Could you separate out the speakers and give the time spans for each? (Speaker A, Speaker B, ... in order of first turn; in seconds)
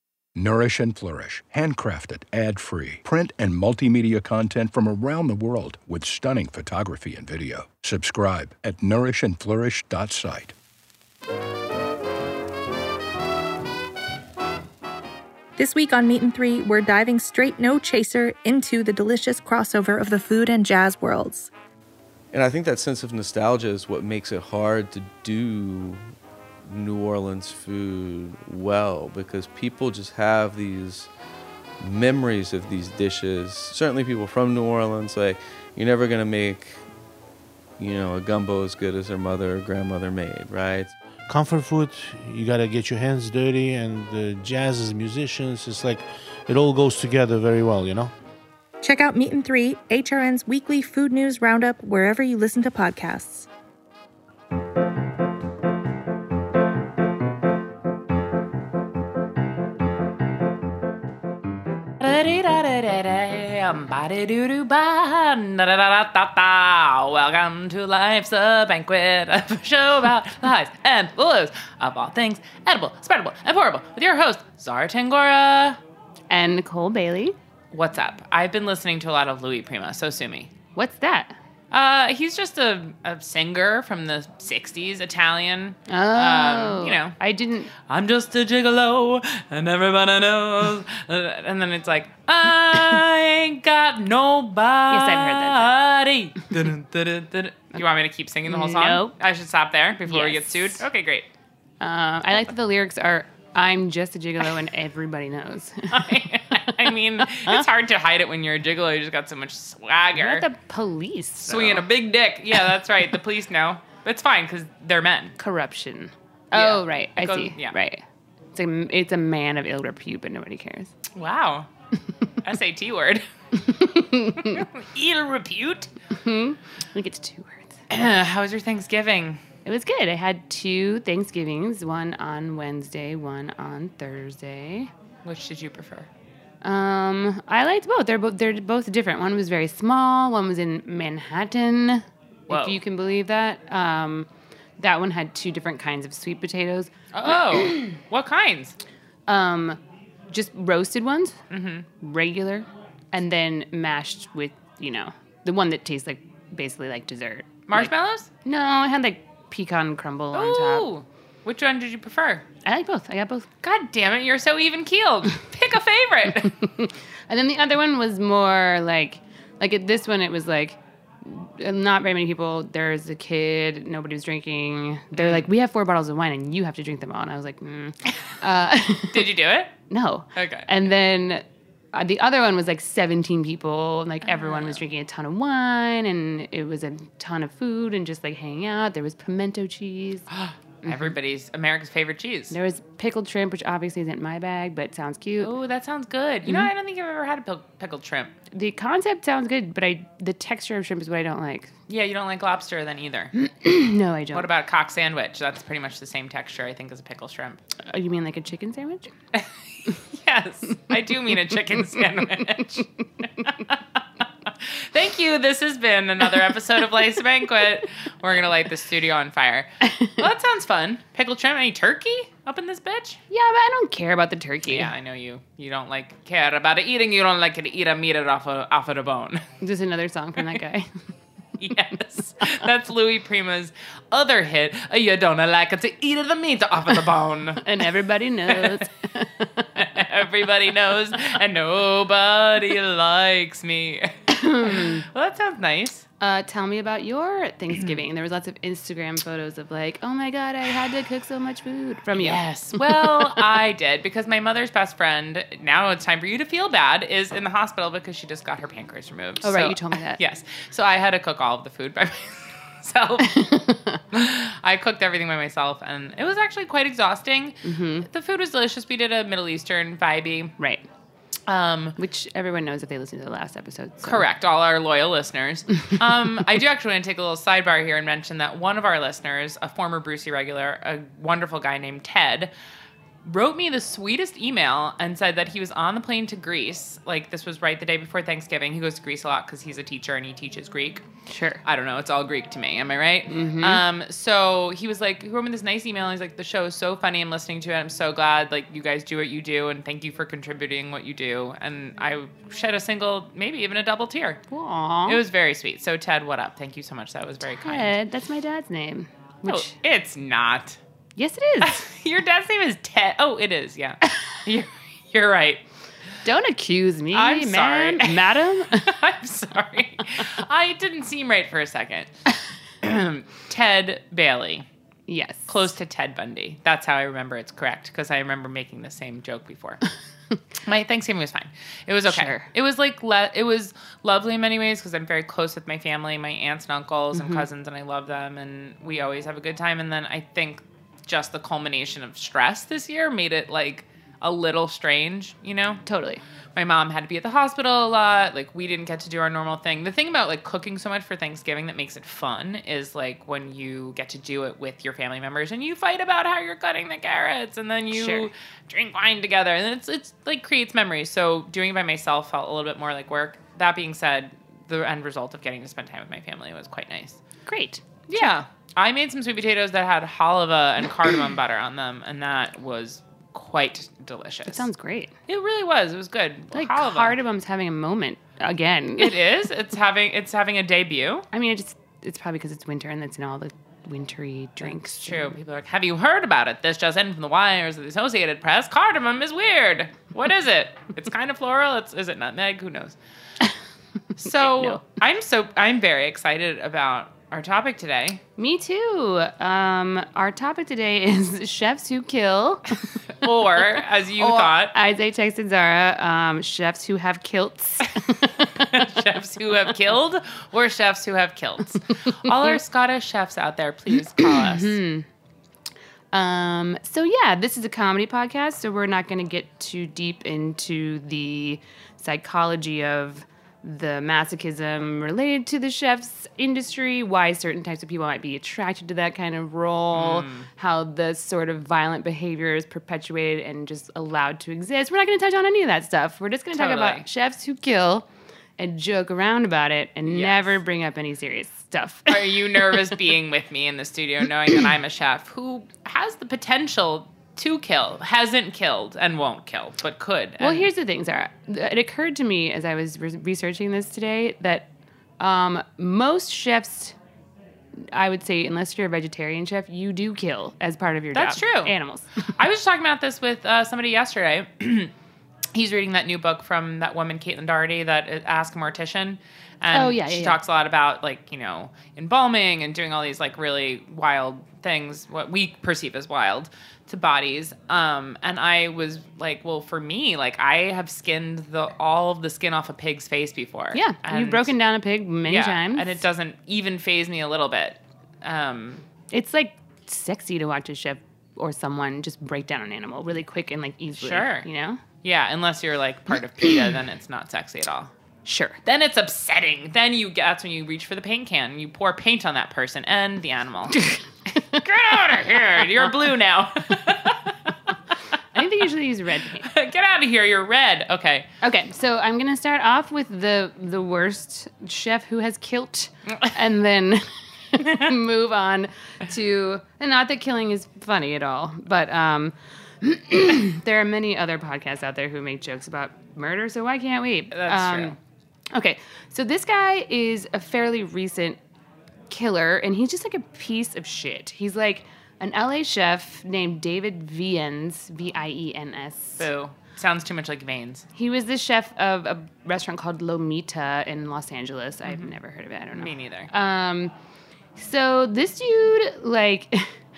Speaker A: 0.3-10.5
Speaker B: 15.6-21.5, 48.8-53.5
Speaker C: 22.3-26.0, 26.7-31.1, 31.8-36.8, 37.8-40.9
Speaker D: 41.3-48.1
Speaker E: 62.0-75.8, 77.7-80.5, 81.7-87.2, 87.8-101.3, 105.9-110.5, 111.5-115.4, 116.5-117.8, 121.2-121.7, 122.4-123.2, 124.3-125.9, 127.9-129.4, 135.2-136.1, 142.5-142.8, 147.1-148.8, 151.5-151.9, 157.7-158.3, 160.3-162.4, 163.6-166.7, 175.2-175.4, 179.1-179.7, 180.3-180.7, 184.3-184.8, 190.3-192.6, 195.4-198.3, 201.9-203.3, 204.3-207.6, 209.3-213.8, 214.7-223.2, 224.7-229.5, 231.6-237.7, 238.5-238.8, 239.8-246.1, 252.2-263.4, 264.1-270.6, 271.5-272.0, 274.0-282.5, 283.3-291.1, 291.6-304.4, 305.1-308.0, 309.5-310.8, 311.6-315.6, 317.1-322.1, 322.8-324.7, 325.5-329.8, 330.6-345.8, 346.6-367.2, 368.1-374.7, 375.3-377.2, 379.0-381.3, 384.6-393.0, 394.2-398.2, 403.2-404.8, 408.6-414.8, 429.9-430.5, 436.5-437.1, 440.1-440.6, 442.1-450.7, 461.1-461.7, 462.4-464.9, 465.5-484.5, 485.3-488.9, 493.9-494.5, 495.0-497.9, 498.6-503.8, 504.5-507.5, 509.4-511.3, 527.3-528.0, 539.2-540.9, 545.7-546.3
Speaker F: 76.3-77.4, 80.8-81.4, 85.9-87.7, 94.9-95.7, 98.5-99.1, 100.0-100.8, 101.8-106.1, 110.2-111.9, 115.4-118.0, 118.5-120.9, 123.7-124.7, 126.2-127.9, 129.7-134.9, 136.6-144.3, 144.8-147.9, 149.3-149.8, 150.3-151.4, 152.0-157.9, 158.4-160.9, 162.6-163.5, 167.3-179.3, 179.9-190.3, 190.8-191.1, 192.5-195.5, 198.5-201.7, 203.3-204.5, 207.9-209.1, 223.3-224.9, 229.6-230.9, 237.6-239.7, 244.3-245.1, 246.2-253.3, 259.4-260.2, 263.2-264.0, 267.6-268.1, 270.6-270.9, 272.0-274.2, 291.3-291.6, 293.3-293.8, 304.5-305.2, 307.6-309.7, 311.2-311.8, 316.2-319.0, 325.1-325.7, 332.1-332.5, 337.1-337.5, 345.9-346.2, 357.9-358.3, 367.5-368.3, 374.5-375.1, 376.5-379.2, 381.3-385.4, 394.2-394.8, 398.4-402.8, 404.2-408.3, 414.2-415.1, 416.1-438.1, 438.6-442.8, 450.4-454.7, 455.2-457.0, 457.9-462.1, 469.7-470.4, 483.7-486.0, 489.1-494.8, 498.3-498.6, 508.4-509.5, 511.4-528.0, 528.5-531.4, 532.1-539.2, 541.0-546.9, 547.6-549.7